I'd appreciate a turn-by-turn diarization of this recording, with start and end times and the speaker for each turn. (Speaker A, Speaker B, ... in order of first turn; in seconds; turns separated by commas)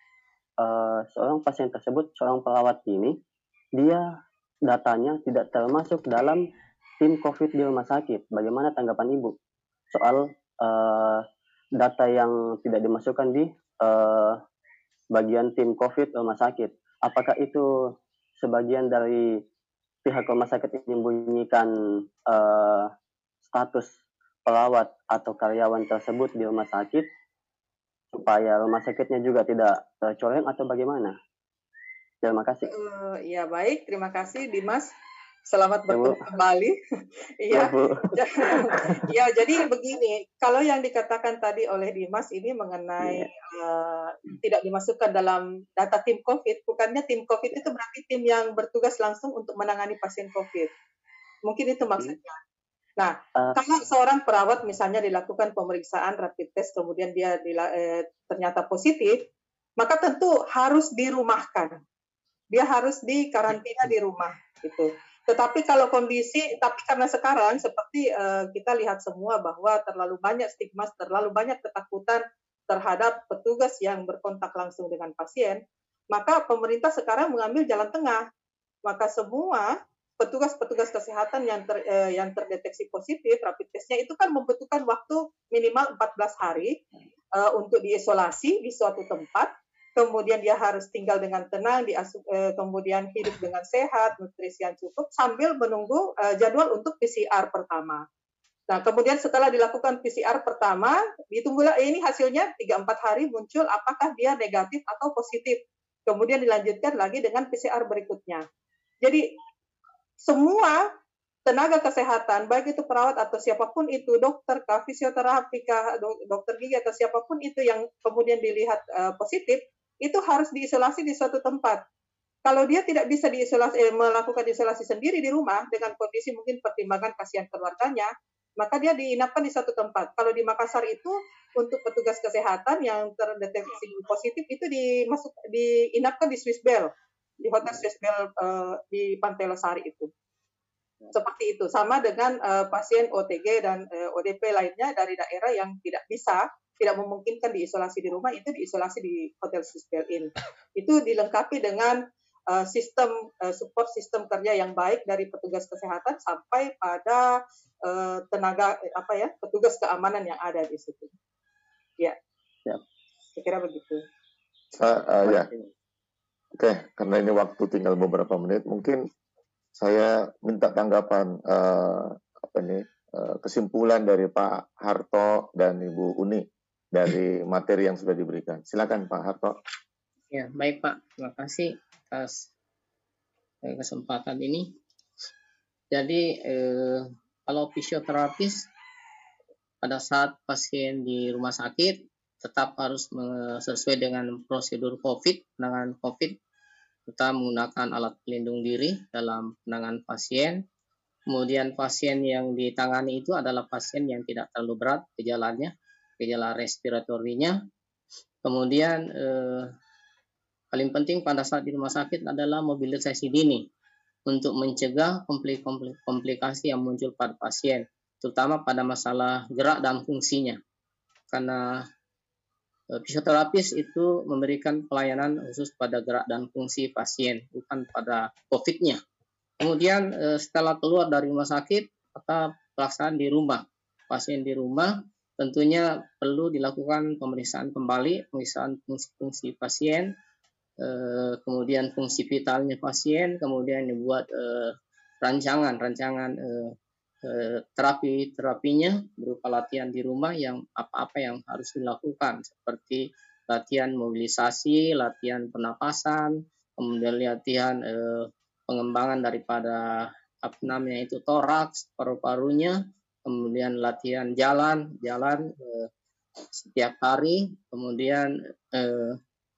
Speaker A: 0.6-3.1, Speaker A: 3.8-4.0, Speaker A: 4.7-6.4, Speaker A: 7.0-9.3, Speaker A: 9.9-11.2, Speaker A: 11.8-14.4, Speaker A: 15.1-19.4, Speaker A: 20.1-21.7, Speaker A: 22.3-22.9, Speaker A: 23.4-23.9, Speaker A: 24.4-27.1, Speaker A: 28.1-31.1, Speaker A: 32.2-32.6, Speaker B: 32.6-34.9, Speaker B: 35.5-36.8, Speaker A: 35.9-36.2, Speaker B: 37.4-50.7, Speaker A: 37.5-39.1, Speaker A: 43.0-43.3, Speaker B: 51.4-52.4, Speaker B: 53.0-59.2, Speaker B: 59.8-61.8, Speaker B: 62.5-78.2, Speaker B: 78.8-86.8, Speaker B: 87.3-98.0, Speaker B: 98.7-108.4, Speaker B: 109.0-109.3, Speaker B: 110.2-110.8, Speaker B: 111.5-121.8, Speaker B: 122.4-140.1, Speaker B: 141.1-157.2, Speaker B: 157.8-161.1, Speaker B: 163.3-164.0, Speaker C: 164.7-165.5, Speaker A: 165.2-165.7, Speaker C: 166.6-169.1, Speaker C: 169.8-179.6, Speaker D: 180.3-182.5, Speaker D: 183.6-184.7, Speaker D: 185.9-188.7, Speaker D: 189.8-196.3, Speaker D: 197.1-200.6, Speaker D: 201.3-207.6, Speaker D: 208.4-209.7, Speaker D: 210.7-213.7, Speaker D: 214.3-220.6, Speaker D: 221.3-221.9, Speaker D: 222.9-229.0, Speaker D: 229.6-240.1, Speaker D: 240.8-246.7, Speaker D: 247.2-265.9, Speaker D: 266.6-269.2